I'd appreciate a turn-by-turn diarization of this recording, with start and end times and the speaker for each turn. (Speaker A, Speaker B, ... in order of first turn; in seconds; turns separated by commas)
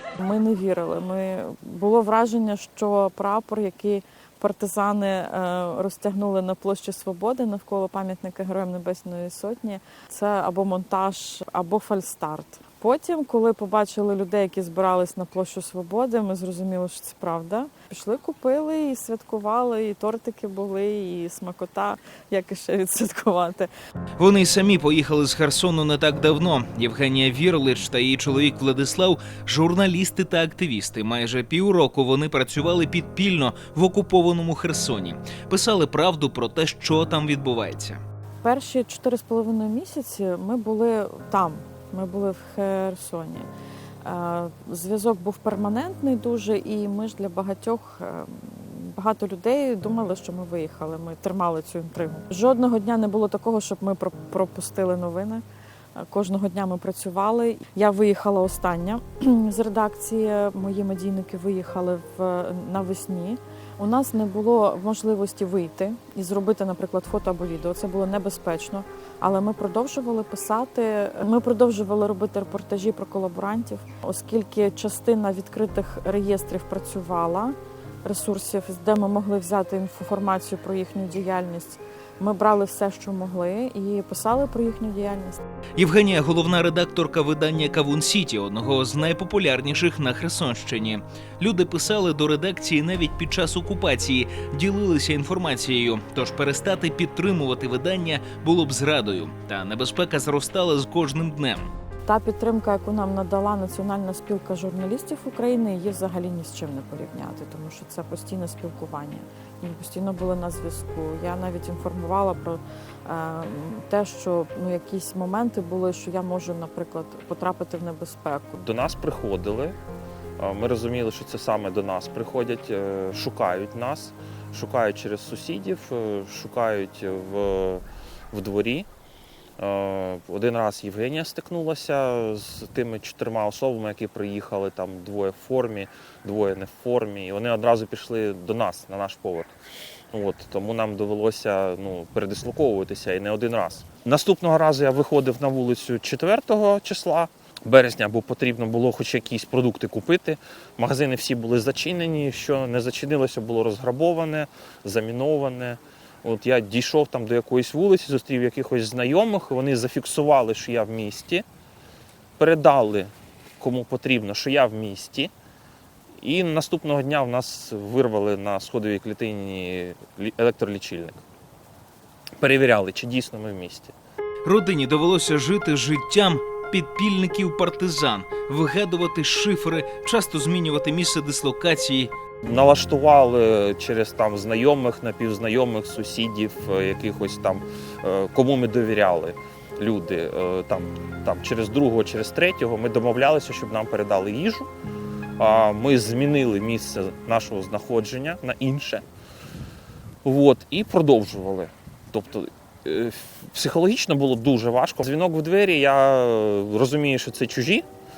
Speaker A: 0.2-23.7, Speaker B: 24.2-38.0, Speaker A: 38.4-43.5, Speaker A: 44.0-55.4, Speaker A: 56.0-85.4, Speaker B: 85.8-101.7, Speaker A: 102.0-118.5, Speaker C: 118.5-119.8, Speaker C: 120.4-128.9, Speaker C: 129.6-139.5, Speaker C: 140.1-161.4, Speaker C: 162.4-165.3, Speaker C: 166.2-171.2, Speaker C: 172.4-173.9, Speaker B: 174.4-182.1, Speaker C: 182.4-194.7, Speaker C: 195.4-199.0, Speaker C: 200.2-207.8